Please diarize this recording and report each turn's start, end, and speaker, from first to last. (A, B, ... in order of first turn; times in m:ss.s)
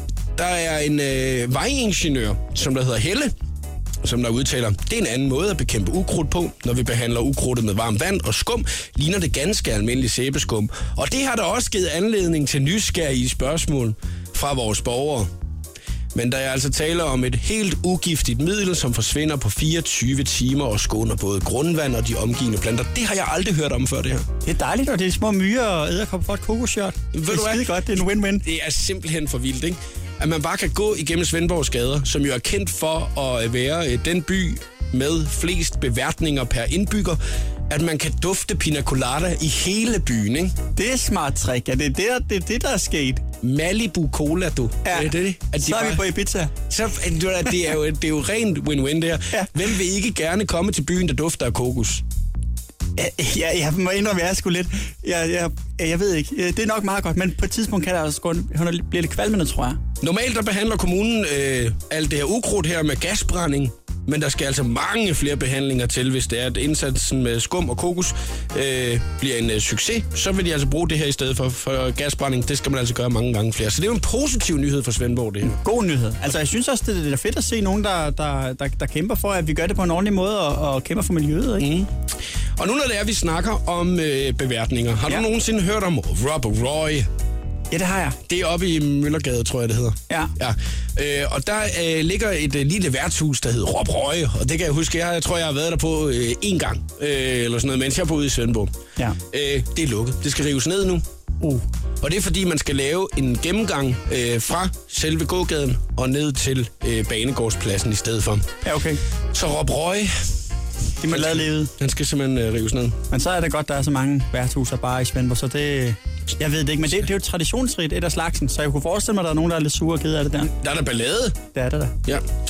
0:00.4-0:03.3 A
0:04.0-0:15.3 A
0:16.1-0:24.3 A
0:24.4-0:28.5 B
0:27.1-0:40.6 A
0:40.8-0:43.2 B
0:43.4-0:46.1 A
0:44.8-0:46.6 B
0:46.7-0:52.0 A
0:53.0-0:59.8 B
1:00.0-1:15.6 A
1:15.4-1:21.7 B
1:21.6-1:22.0 A
1:22.6-1:27.1 A
1:27.7-1:28.2 B
1:28.3-1:38.7 A
1:39.3-1:41.0 A
1:42.0-1:48.5 A
1:48.6-1:49.0 B
1:49.3-1:50.1 A
1:51.0-1:51.7 B
1:51.1-1:53.0 A
1:53.1-2:00.5 B
2:00.5-2:01.4 A
2:01.5-2:02.0 B